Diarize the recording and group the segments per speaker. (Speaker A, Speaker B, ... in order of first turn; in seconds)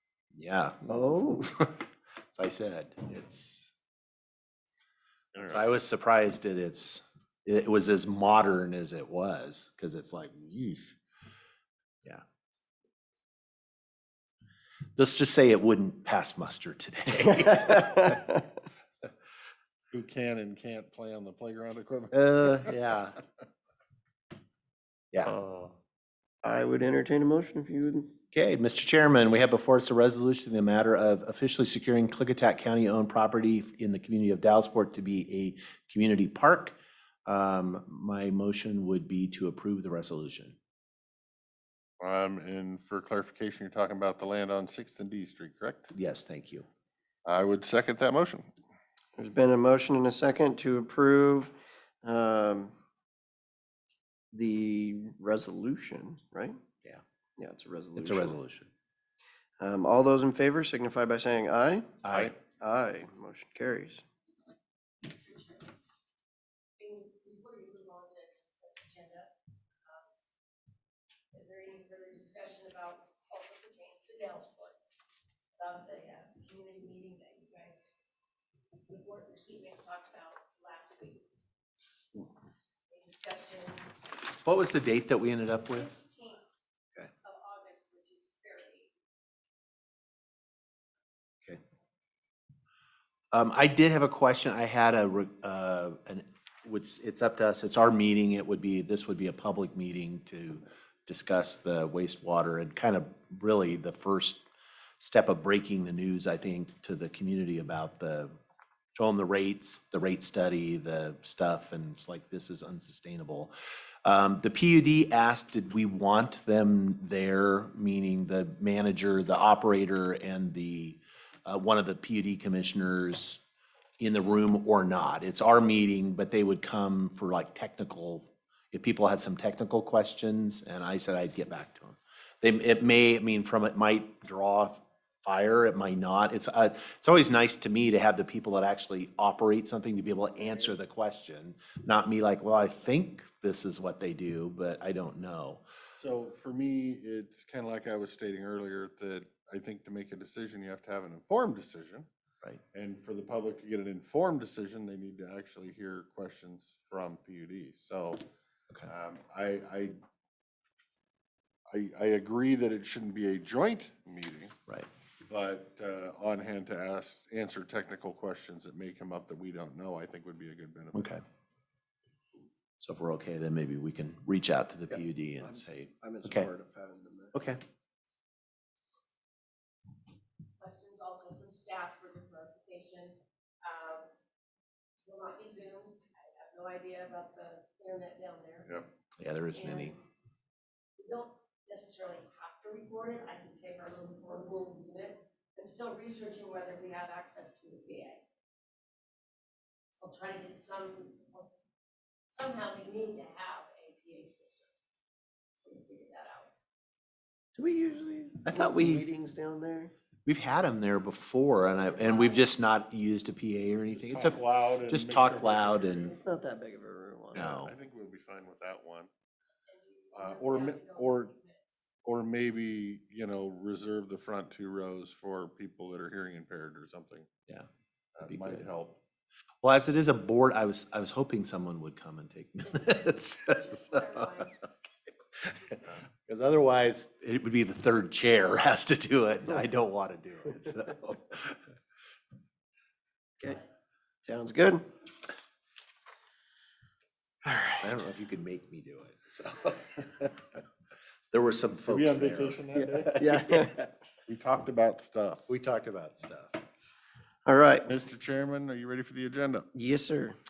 Speaker A: 0.3-1.8, 2.3-3.7, 5.4-11.0, 15.0-18.2, 22.1-23.2, 25.1-25.4, 28.3-36.8, 37.3-40.6, 45.9-46.7, 58.0-58.7, 62.0-62.4, 84.3-85.9, 93.3-104.4, 105.0-108.3, 108.9-113.5, 114.0-123.4, 124.0-145.6, 170.9-171.2, 172.8-176.5, 177.3-177.6, 189.2-190.0, 208.4-209.0, 210.3-216.2, 217.3-217.7, 228.3-228.6, 229.6-234.4, 235.4-241.6, 247.8-250.5, 251.3-253.8, 255.5-256.6
Speaker B: 0.9-1.5, 17.7-18.3, 26.4-28.1, 49.2-52.7, 54.3-56.6, 57.4-58.4, 59.6-64.0, 174.9-177.4, 207.6-209.9, 216.1-217.4, 244.2-244.8, 252.8-253.8, 257.5-257.9, 259.7-260.4
Speaker C: 5.3-5.7, 19.9-22.7, 25.4-25.7, 42.0-45.9, 47.3-48.5, 146.0-152.1, 152.7-158.2, 158.9-160.0, 161.7-164.6, 165.3-171.1, 213.9-216.1, 217.3-219.1, 220.1-221.3, 222.1-227.3, 228.2-229.0, 251.9-253.2, 254.3-255.5, 257.9-259.7
Speaker D: 65.0-65.7, 66.8-69.3, 71.3-74.8, 75.6-78.0, 78.8-81.2, 82.9-83.9, 85.5-86.5, 87.2-88.9, 180.6-184.1, 185.0-188.8, 189.5-190.0, 191.0-198.2, 199.9-201.5, 202.3-204.7, 205.6-206.5, 211.9-212.6, 219.7-221.9, 232.6-234.6